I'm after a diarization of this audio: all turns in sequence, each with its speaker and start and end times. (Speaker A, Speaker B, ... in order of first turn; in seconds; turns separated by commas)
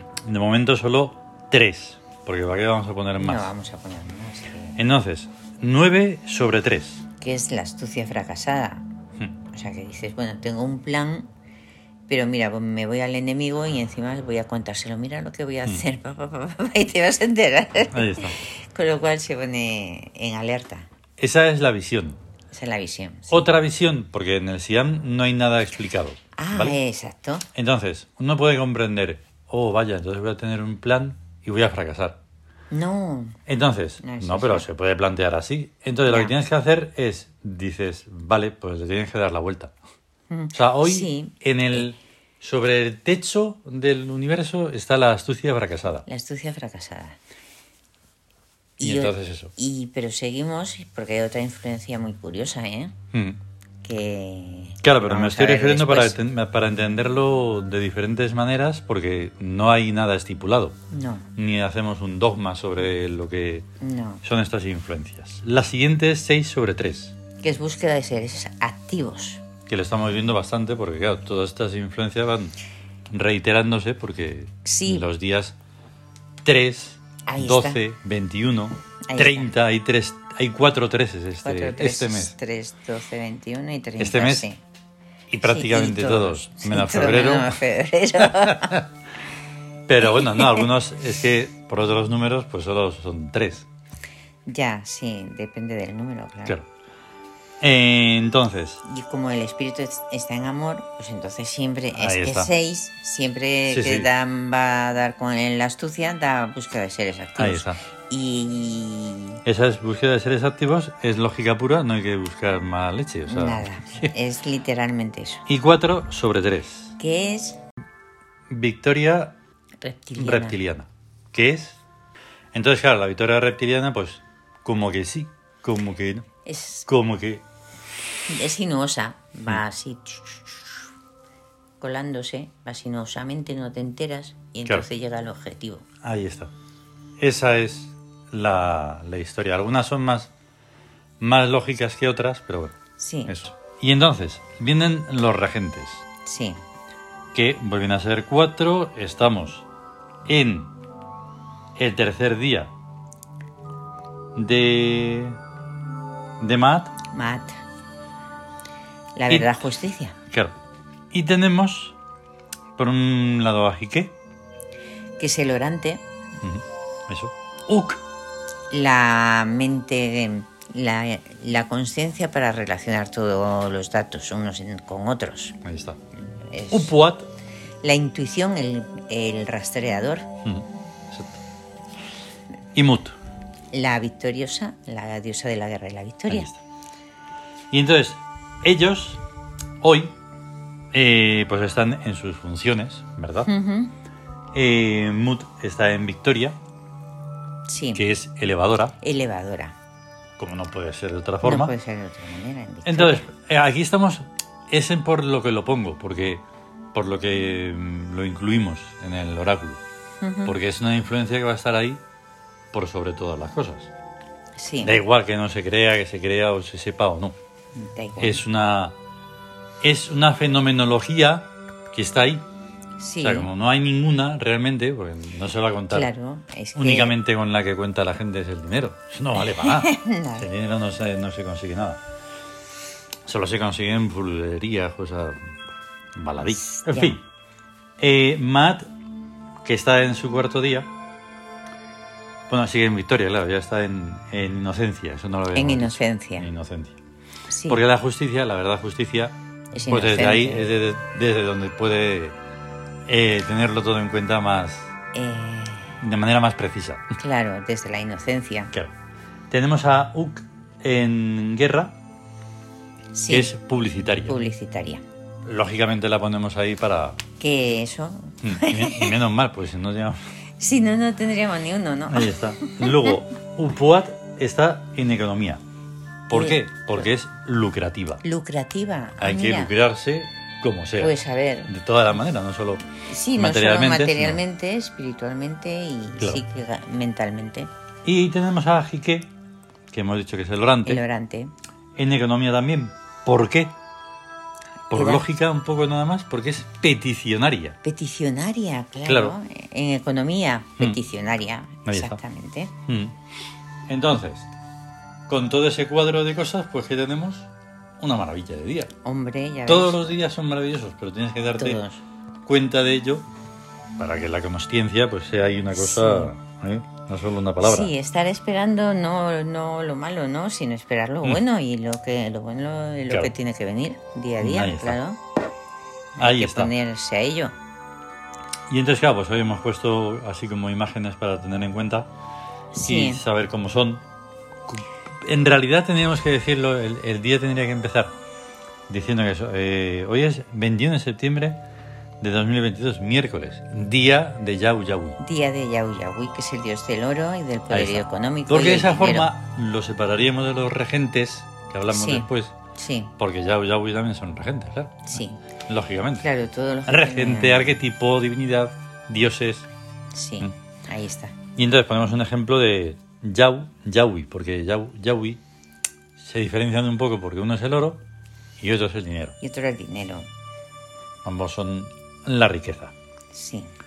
Speaker A: 0.2-3.5, Speaker B: 3.2-4.8, Speaker A: 4.8-7.0, Speaker B: 7.2-8.8, Speaker B: 9.5-11.3, Speaker B: 12.1-20.9, Speaker A: 17.9-18.4, Speaker A: 21.2-22.2, Speaker B: 22.5-23.5, Speaker A: 23.3-26.8, Speaker B: 26.4-27.4, Speaker A: 27.5-32.2, Speaker B: 32.7-33.4, Speaker A: 33.5-39.7, Speaker B: 34.0-34.6, Speaker B: 36.1-36.3, Speaker B: 40.3-41.9, Speaker A: 40.5-46.0, Speaker B: 46.0-47.2, Speaker B: 48.8-52.9, Speaker A: 48.8-49.5, Speaker A: 53.1-53.4, Speaker B: 53.8-56.2, Speaker A: 54.8-60.7, Speaker B: 60.9-61.3, Speaker A: 61.4-63.6, Speaker B: 63.8-64.2, Speaker A: 64.2-67.1, Speaker B: 67.4-69.4, Speaker A: 69.7-72.5, Speaker A: 73.1-75.5, Speaker B: 74.6-75.0, Speaker A: 76.4-82.3, Speaker B: 77.2-77.8, Speaker B: 79.1-79.5, Speaker B: 81.4-84.6, Speaker A: 84.0-84.5, Speaker A: 85.3-87.6, Speaker B: 85.4-88.8, Speaker A: 88.5-88.8, Speaker A: 89.9-93.7, Speaker B: 90.1-90.7, Speaker B: 94.5-96.6, Speaker A: 97.6-98.8, Speaker B: 98.8-109.4, Speaker A: 101.9-102.5, Speaker A: 103.7-104.1, Speaker A: 107.4-107.8, Speaker A: 109.4-114.1, Speaker B: 113.3-115.4, Speaker A: 115.5-116.9, Speaker B: 117.0-117.6, Speaker A: 118.5-119.3, Speaker B: 119.8-120.6, Speaker A: 120.2-121.8, Speaker A: 122.5-126.2, Speaker B: 126.4-126.9, Speaker A: 126.9-127.4, Speaker B: 128.3-130.8, Speaker B: 131.8-135.8, Speaker A: 136.0-136.5, Speaker A: 137.2-140.3, Speaker A: 141.2-142.7, Speaker B: 143.0-143.3, Speaker A: 143.3-146.0, Speaker B: 146.2-146.6, Speaker A: 147.3-149.6, Speaker A: 150.2-150.7, Speaker A: 151.8-152.7, Speaker A: 154.3-155.4, Speaker A: 156.4-156.9, Speaker B: 157.1-157.6, Speaker B: 159.2-160.2, Speaker A: 159.3-159.6, Speaker A: 161.1-161.9, Speaker A: 162.8-164.1, Speaker B: 165.2-166.0, Speaker A: 166.4-168.0, Speaker B: 168.7-175.6, Speaker A: 175.6-176.0, Speaker B: 176.4-176.9, Speaker A: 176.7-177.3, Speaker B: 177.8-180.3, Speaker A: 180.4-181.4, Speaker A: 182.7-183.2, Speaker B: 183.7-186.5, Speaker A: 186.3-186.6, Speaker A: 187.7-189.2, Speaker A: 189.8-190.1, Speaker A: 190.9-193.5, Speaker B: 193.4-193.9, Speaker A: 194.5-196.6, Speaker B: 197.7-198.0, Speaker A: 197.9-198.9, Speaker B: 199.0-199.7, Speaker A: 200.4-201.7, Speaker B: 201.4-203.2, Speaker A: 202.8-206.4, Speaker A: 206.9-209.8, Speaker B: 210.2-210.5, Speaker A: 210.4-212.0, Speaker A: 212.7-213.9, Speaker B: 214.6-215.0, Speaker A: 214.8-217.3, Speaker B: 217.7-218.4, Speaker A: 218.2-218.9, Speaker A: 219.8-222.4, Speaker B: 223.0-223.5, Speaker A: 223.2-226.1, Speaker B: 225.9-227.2, Speaker A: 226.8-232.0, Speaker B: 229.4-230.5, Speaker A: 233.2-235.5, Speaker A: 236.2-237.2, Speaker B: 236.5-237.2, Speaker A: 238.0-238.9, Speaker A: 239.6-240.9, Speaker A: 242.5-247.0, Speaker B: 245.5-246.5, Speaker B: 247.5-247.8, Speaker A: 247.7-249.3, Speaker B: 249.7-250.7, Speaker A: 249.9-252.4, Speaker A: 253.1-254.9, Speaker B: 255.1-256.0, Speaker A: 256.0-257.1, Speaker B: 257.2-258.7, Speaker A: 259.5-261.9, Speaker B: 263.1-263.5, Speaker A: 263.3-264.4, Speaker B: 264.2-265.0, Speaker A: 265.4-267.2, Speaker B: 267.4-269.2, Speaker A: 268.4-270.2, Speaker B: 270.6-273.2, Speaker A: 272.1-275.6, Speaker A: 276.3-278.2, Speaker B: 276.3-277.1, Speaker B: 278.2-279.7, Speaker A: 279.2-281.1, Speaker B: 281.0-281.7, Speaker A: 281.7-282.8, Speaker B: 283.1-287.7, Speaker A: 283.3-284.4, Speaker A: 288.0-289.3, Speaker A: 289.9-291.0, Speaker B: 290.9-291.5, Speaker A: 291.9-293.7, Speaker B: 294.9-295.2, Speaker A: 294.9-297.8, Speaker B: 297.8-302.7, Speaker A: 299.1-299.3, Speaker A: 301.9-302.2, Speaker A: 302.9-303.1, Speaker A: 303.9-304.5, Speaker A: 305.3-307.5, Speaker A: 308.0-308.9, Speaker B: 309.0-310.1, Speaker A: 309.7-311.8, Speaker B: 311.6-312.0, Speaker A: 312.4-313.2, Speaker A: 314.0-317.9, Speaker B: 315.7-316.3, Speaker B: 317.6-325.2, Speaker A: 324.4-325.0, Speaker B: 326.1-327.5, Speaker A: 326.2-326.7, Speaker A: 328.7-332.1, Speaker B: 332.7-333.2, Speaker A: 332.8-334.0, Speaker A: 334.7-338.1, Speaker A: 338.9-341.6, Speaker A: 342.2-345.2, Speaker B: 345.2-349.3, Speaker A: 347.7-352.5, Speaker B: 351.9-353.1, Speaker A: 353.2-356.2, Speaker B: 355.1-355.4, Speaker B: 356.2-357.8, Speaker A: 356.9-359.7, Speaker B: 360.1-361.4, Speaker A: 361.6-365.4, Speaker A: 366.2-368.0, Speaker A: 368.6-369.3, Speaker B: 369.4-370.3, Speaker A: 371.2-372.9, Speaker B: 373.3-373.7